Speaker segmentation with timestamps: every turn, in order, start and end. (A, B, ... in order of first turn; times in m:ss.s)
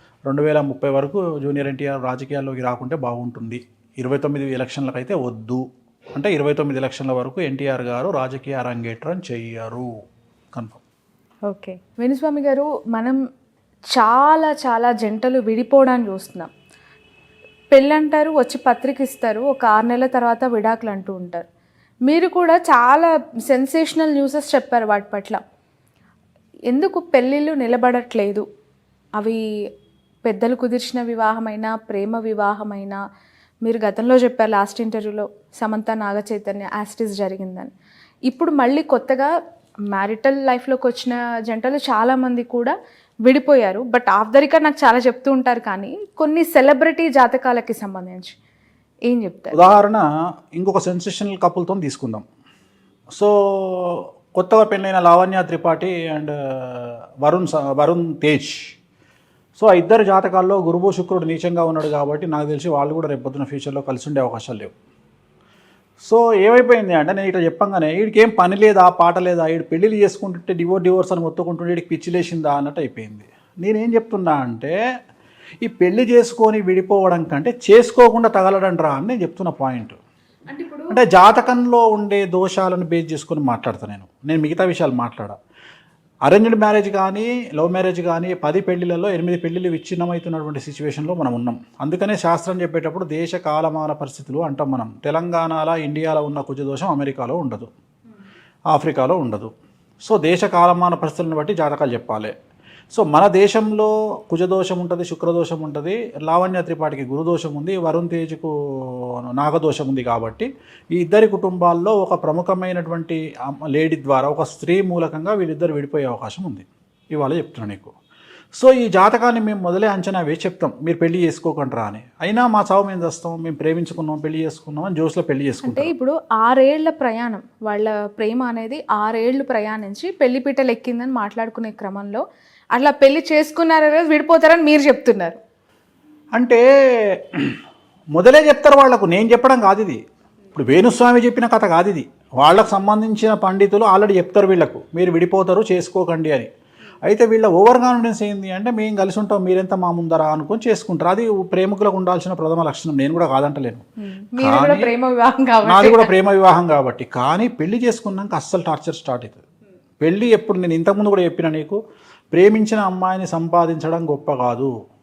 0:00.3-0:09.9 A
0:10.5-0:10.8 A
0:11.5-0:13.2 B
0:13.9-0:16.5 B
0:17.7-0:21.4 B
0:22.1-0:25.4 B
0:26.7-0:28.4 B
0:30.2-0:33.0 B
0:33.6-0:37.7 B
0:38.3-0:39.3 B
0:39.9-0:42.7 B
0:43.2-0:48.3 B
0:49.1-0:49.6 B
0:49.5-0:52.2 A
0:53.2-0:58.7 A
0:59.6-1:04.7 A
1:06.0-1:14.8 A
1:15.6-1:20.0 A
1:20.5-1:21.0 B
1:20.9-1:25.4 A
1:26.3-1:37.7 A
1:38.7-1:39.5 A
1:40.0-1:42.3 A
1:42.9-1:57.9 A
1:58.6-2:05.9 A
2:05.6-2:12.2 B
2:12.7-2:15.4 B
2:16.4-2:17.6 A
2:18.1-2:20.0 A
2:20.5-2:26.5 A
2:27.0-2:33.8 A
2:34.0-2:36.1 B
2:34.4-2:34.9 A
2:35.6-2:39.4 A
2:40.0-2:41.8 A
2:42.3-2:44.7 A